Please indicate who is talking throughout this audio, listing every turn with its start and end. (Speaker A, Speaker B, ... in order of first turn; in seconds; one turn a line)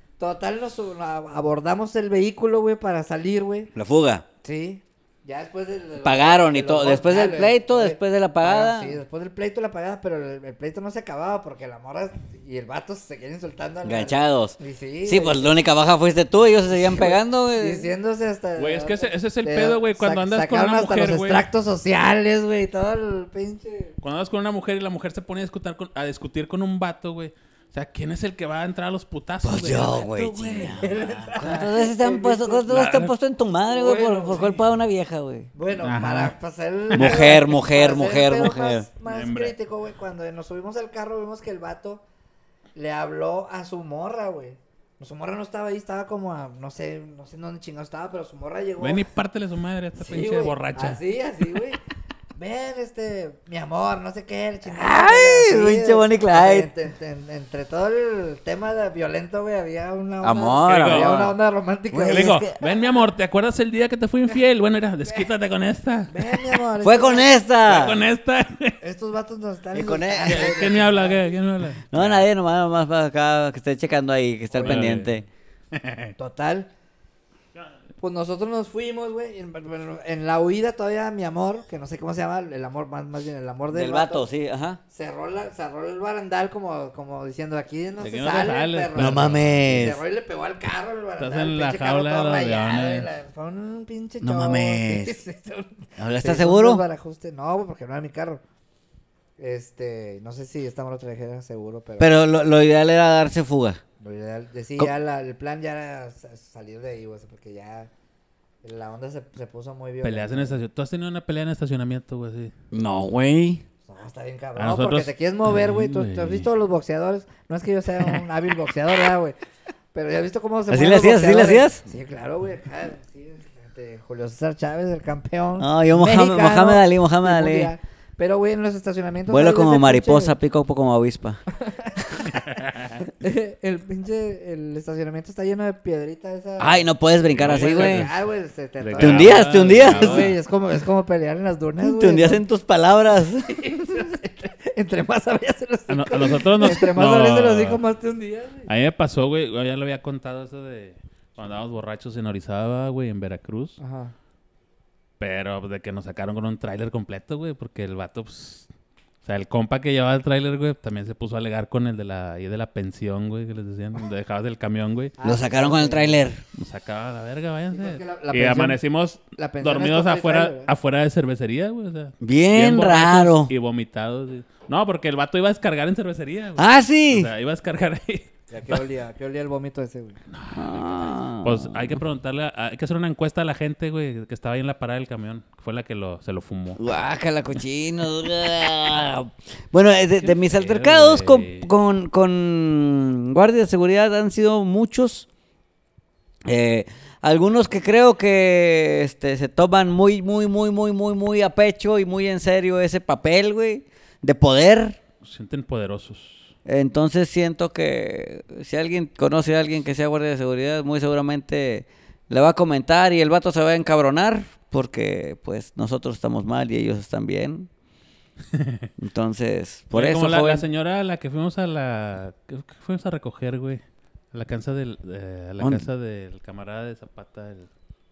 Speaker A: 0.2-3.7
Speaker B: 3.8-4.2
Speaker A: 4.4-15.6
Speaker B: 6.0-9.0
Speaker B: 13.8-17.9
Speaker A: 16.7-23.9
Speaker C: 18.6-21.5
Speaker C: 24.0-30.8
Speaker B: 29.4-35.5
Speaker A: 30.7-32.7
Speaker C: 32.7-33.1
Speaker A: 33.6-34.6
Speaker A: 35.5-42.0
Speaker C: 35.8-36.3
Speaker C: 36.9-37.3
Speaker B: 36.9-38.9
Speaker C: 39.0-39.6
Speaker A: 42.8-49.1
Speaker C: 48.8-51.0
Speaker A: 50.0-51.8
Speaker A: 52.4-62.8
Speaker B: 54.6-56.7
Speaker B: 60.2-61.4
Speaker C: 60.7-61.4
Speaker B: 61.9-62.6
Speaker C: 62.0-66.6
Speaker A: 66.1-67.9
Speaker B: 66.8-68.0
Speaker C: 67.6-68.8
Speaker A: 68.8-71.4
Speaker B: 69.7-70.7
Speaker C: 70.3-72.3
Speaker B: 71.9-75.2
Speaker A: 74.5-75.0
Speaker C: 74.6-75.2
Speaker C: 75.7-76.2
Speaker A: 76.2-76.7
Speaker A: 78.0-84.3
Speaker B: 83.7-84.8
Speaker A: 84.9-98.4
Speaker C: 88.0-89.8
Speaker B: 89.0-90.0
Speaker C: 91.2-93.1
Speaker B: 94.2-95.2
Speaker B: 96.0-96.8
Speaker A: 99.4-102.2
Speaker B: 102.0-103.8
Speaker A: 104.0-107.9
Speaker A: 108.6-110.6
Speaker C: 110.0-112.5
Speaker B: 112.7-113.6
Speaker A: 113.8-119.4
Speaker C: 114.6-116.5
Speaker A: 119.9-130.3
Speaker B: 120.7-121.8
Speaker B: 125.6-127.7
Speaker B: 129.3-131.4
Speaker A: 131.5-132.3
Speaker C: 132.3-133.0
Speaker A: 133.2-142.4
Speaker B: 136.6-138.1
Speaker C: 137.3-138.2
Speaker C: 138.8-140.4
Speaker B: 139.0-140.3
Speaker B: 141.8-143.8
Speaker A: 143.3-148.7
Speaker C: 145.9-147.8
Speaker C: 148.7-153.8
Speaker A: 153.8-154.2
Speaker C: 155.2-158.7
Speaker C: 159.2-165.2
Speaker A: 165.2-166.2
Speaker B: 165.2-166.4
Speaker C: 166.6-178.8
Speaker A: 167.7-168.8
Speaker A: 169.4-170.7
Speaker B: 172.2-173.5
Speaker B: 176.6-177.3
Speaker A: 178.5-180.2
Speaker C: 180.3-186.8
Speaker B: 180.5-182.0
Speaker B: 186.8-195.3
Speaker C: 190.2-191.7
Speaker B: 196.5-205.0
Speaker C: 205.2-206.6
Speaker B: 206.7-217.7
Speaker C: 218.5-218.9
Speaker B: 219.0-220.7
Speaker C: 219.9-223.8
Speaker C: 224.3-227.7
Speaker B: 225.6-225.9